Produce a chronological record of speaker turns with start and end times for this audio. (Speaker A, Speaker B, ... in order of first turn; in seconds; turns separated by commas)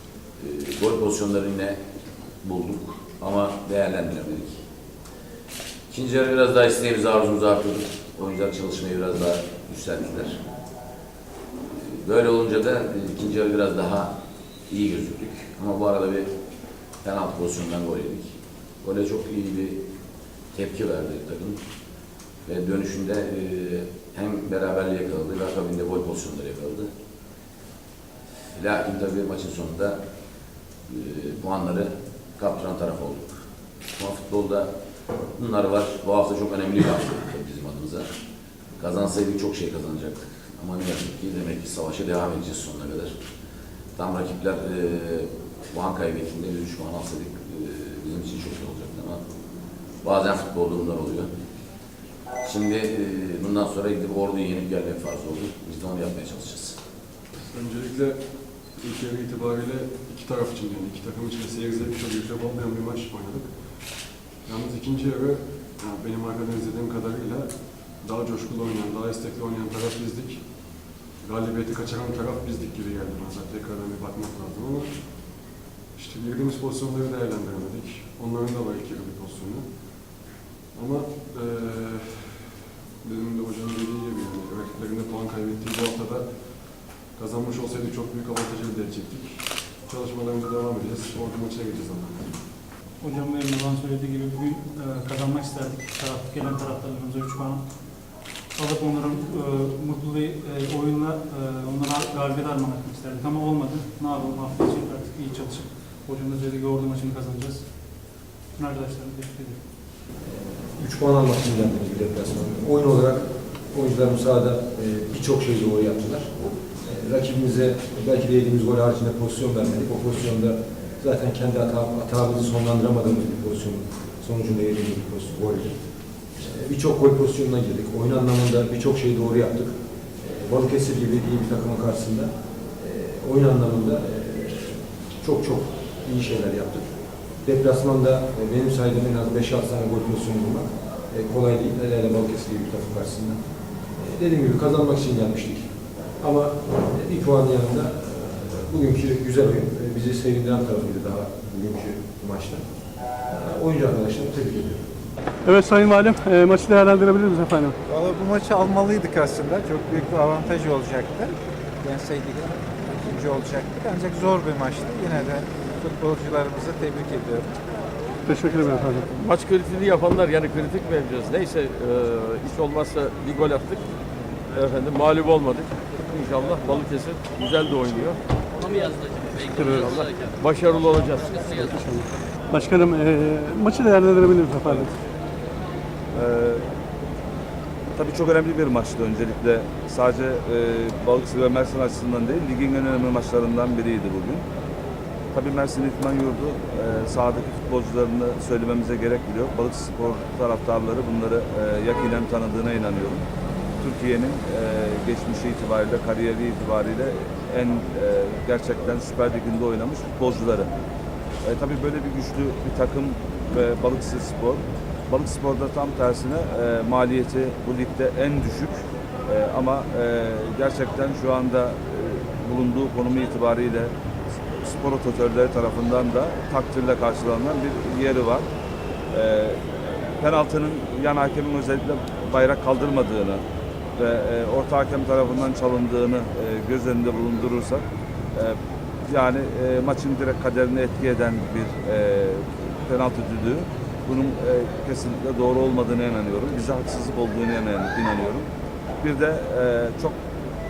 Speaker A: 0.4-1.8, Speaker A: 2.4-4.6, Speaker A: 5.9-10.4, Speaker A: 11.7-14.2, Speaker A: 14.7-16.3, Speaker A: 17.0-19.8, Speaker A: 20.5-21.6, Speaker A: 22.5-26.9, Speaker A: 28.5-30.0, Speaker A: 30.9-33.3, Speaker A: 34.0-34.7, Speaker A: 35.4-38.1, Speaker A: 38.8-43.2, Speaker A: 44.0-49.2, Speaker A: 50.0-51.3, Speaker A: 52.4-56.8, Speaker B: 57.4-82.4, Speaker B: 83.0-92.4, Speaker C: 93.0-109.6, Speaker D: 110.8-125.8, Speaker D: 126.3-136.8, Speaker D: 137.4-143.4, Speaker D: 144.0-145.7, Speaker D: 146.2-152.6, Speaker D: 153.3-154.8, Speaker E: 155.6-157.6, Speaker F: 157.9-167.5, Speaker E: 168.5-169.0, Speaker G: 169.2-173.8, Speaker G: 174.5-178.2, Speaker G: 179.3-181.8, Speaker E: 182.6-184.9, Speaker H: 186.1-186.7, Speaker H: 188.0-194.4, Speaker H: 195.3-203.2, Speaker H: 203.8-210.7, Speaker H: 211.4-223.9, Speaker H: 224.5-228.5, Speaker H: 229.1-229.7, Speaker H: 230.2-233.4, Speaker H: 234.0-248.5, Speaker H: 249.0-250.2